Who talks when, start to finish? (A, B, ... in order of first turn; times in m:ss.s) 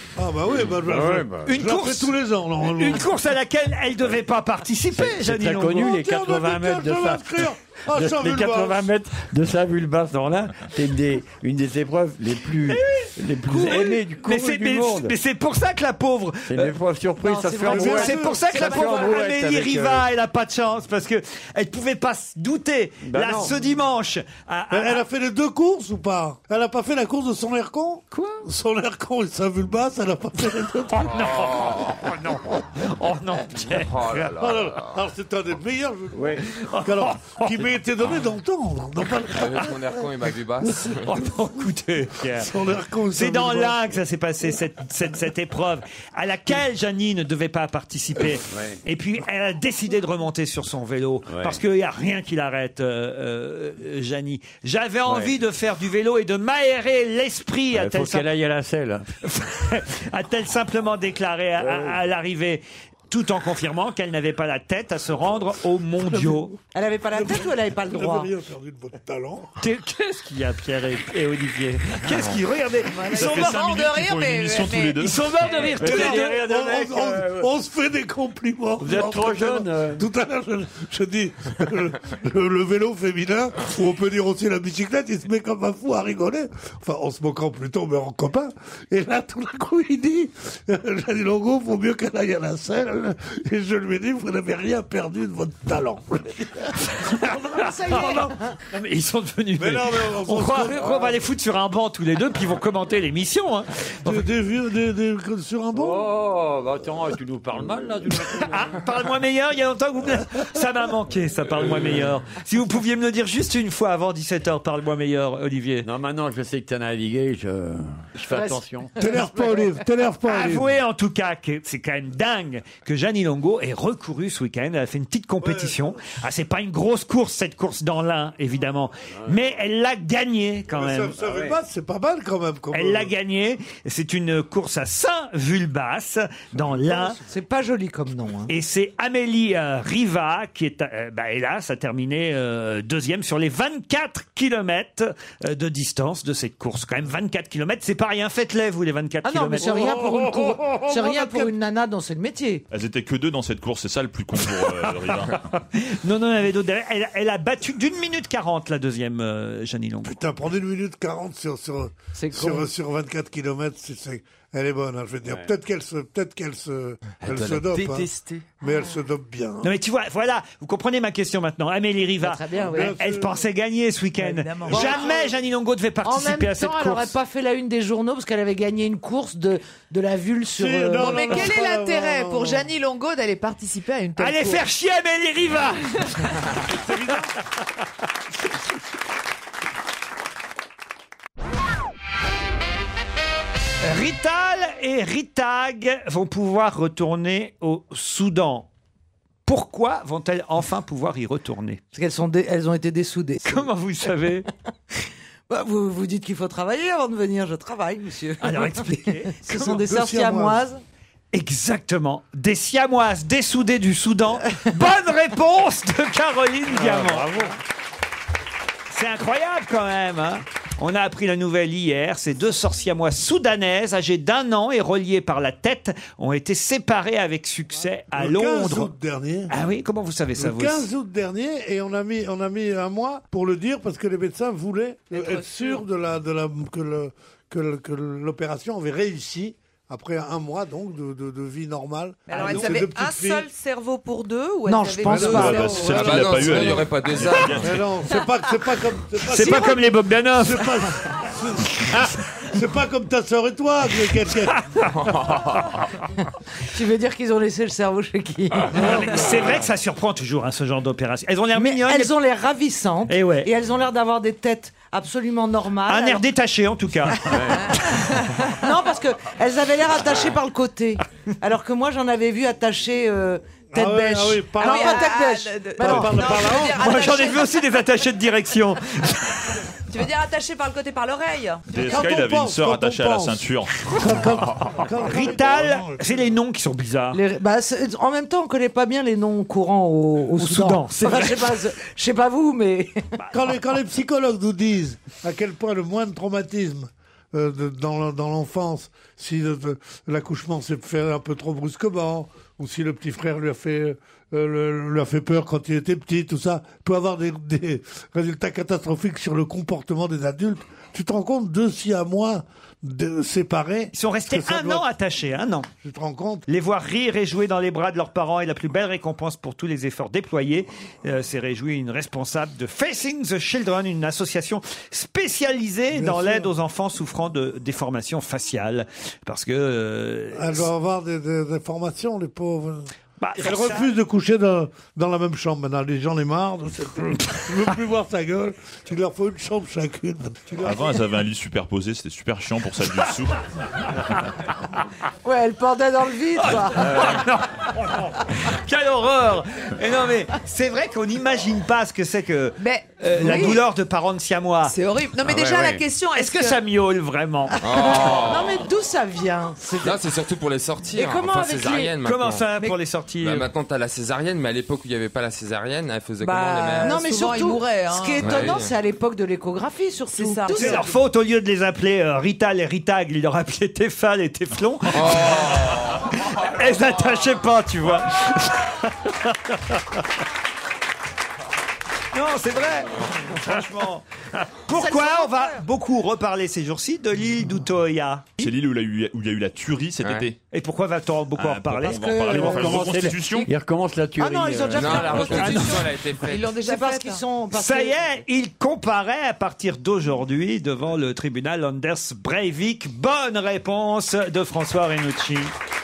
0:00.2-0:03.1 A
0:00.7-0:01.4 B
0:01.4-0:06.0 C
0:04.9-0:15.1 B
0:05.8-0:08.9 A
0:12.7-0:16.7 C
0:16.5-0:20.1 B
0:17.2-0:19.1 D
0:17.6-0:25.0 C
0:17.7-0:18.5 A
0:23.0-0:23.6 B
0:24.7-0:31.4 A
0:28.1-0:28.4 C
0:31.0-0:34.3 C
0:31.2-0:32.0 E
0:33.8-0:34.9 E
0:34.4-0:40.0 A
0:36.1-0:36.4 B
0:36.6-0:37.5 C
0:39.3-0:41.0 E
0:41.0-0:42.5 C
0:42.2-0:43.8 A
0:43.1-0:58.2 C
0:48.5-0:48.8 B
0:51.3-0:51.6 B
0:55.0-0:55.3 B
0:57.7-0:59.1 B
0:59.2-1:06.6 C
1:01.6-1:02.0 B
1:06.7-1:08.3 D
1:07.1-1:09.6 A
1:09.6-1:13.6 C
1:13.1-1:15.8 F
1:13.1-1:15.3 G
1:15.0-1:16.4 C
1:15.4-1:17.5 B
1:15.8-1:37.1 A
1:18.8-1:20.0 B
1:36.9-1:44.2 C
1:37.2-1:38.6 D
1:37.9-1:38.2 A
1:39.6-1:41.2 A
1:44.0-1:46.1 A
1:45.7-1:48.8 B
1:48.5-1:55.9 C
1:55.8-1:59.0 B
1:58.3-1:59.6 D
1:59.0-2:00.7 A
2:00.2-2:11.2 C
2:05.4-2:06.0 A
2:10.7-2:13.1 A
2:11.2-2:11.6 B
2:12.7-2:17.2 C
2:16.9-2:18.5 D
2:18.5-2:29.8 C
2:29.2-2:32.6 D
2:29.6-2:31.5 A
2:32.7-2:35.4 G
2:35.7-2:40.1 C
2:40.0-2:48.1 A
2:42.1-2:42.6 D
2:47.2-2:48.4 E
2:48.6-2:49.7 A
2:49.6-2:57.1 C
2:52.2-2:53.0 D
2:52.6-2:53.4 A
2:54.2-2:55.2 F
2:54.6-2:55.2 A
2:56.0-3:01.4 D
3:00.6-3:02.7 A
3:01.0-3:04.6 F
3:04.2-3:07.2 C
3:06.8-3:07.2 A
3:13.8-3:18.7 C
3:19.4-3:21.8 C
3:21.9-3:23.7 D
3:23.4-3:24.5 C
3:25.5-3:30.8 D
3:28.4-3:29.6 C
3:29.4-3:30.6 A
3:31.3-3:37.5 C
3:36.7-3:37.5 B
3:38.9-3:48.9 C
3:48.1-3:49.5 A
3:49.5-3:50.9 C
3:50.4-4:03.5 A
3:55.1-3:55.8 F
4:02.3-4:06.2 F
4:04.7-4:06.0 D
4:05.0-4:06.8 A
4:05.1-4:07.8 G
4:05.8-4:07.7 E
4:07.6-4:14.6 A
4:09.3-4:10.8 C
4:15.0-4:15.6 E
4:16.7-4:19.2 D
4:18.7-4:22.1 C
4:21.5-4:26.2 D
4:23.1-4:23.5 C
4:25.9-4:28.0 C
4:27.2-4:27.8 B
4:28.5-4:36.6 D
4:33.7-4:35.1 A
4:34.6-4:37.6 F
4:35.8-4:37.0 A
4:36.7-4:39.6 C
4:39.9-4:42.0 F
4:41.7-4:44.0 G
4:41.8-4:46.3 A
4:44.7-4:47.2 C
4:47.1-4:53.1 D
4:50.4-4:51.5 C
4:53.3-5:14.9 A
5:13.9-5:15.7 C
5:15.8-5:16.4 A
5:16.5-5:30.6 C
5:25.9-5:26.5 A
5:30.3-5:40.9 A
5:33.2-5:33.9 C
5:40.6-5:43.4 G
5:45.2-5:47.1 D
5:46.4-5:54.7 C
5:46.8-5:47.2 B
5:52.6-5:53.6 F
5:54.6-5:56.6 F
5:55.2-5:55.8 B
5:56.2-5:57.6 C
5:57.6-5:58.7 E
5:57.7-6:00.0 D
5:59.8-6:02.4 E
6:00.9-6:02.0 D
6:02.0-6:03.5 C
6:03.2-6:06.9 E
6:06.2-6:08.5 F
6:06.8-6:10.9 D
6:08.2-6:08.7 E
6:10.1-6:10.9 F
6:10.5-6:19.8 C
6:14.9-6:16.0 E
6:22.1-6:28.5 C
6:24.7-6:25.6 D
6:28.4-6:30.4 G
6:30.5-6:32.4 C
6:31.4-6:33.5 G
6:32.0-6:35.7 B
6:32.3-6:32.6 D
6:34.2-6:35.6 D
6:34.7-6:36.6 E
6:35.2-6:35.8 C
6:35.3-6:37.2 F
6:36.6-6:38.2 D
6:37.5-6:45.5 C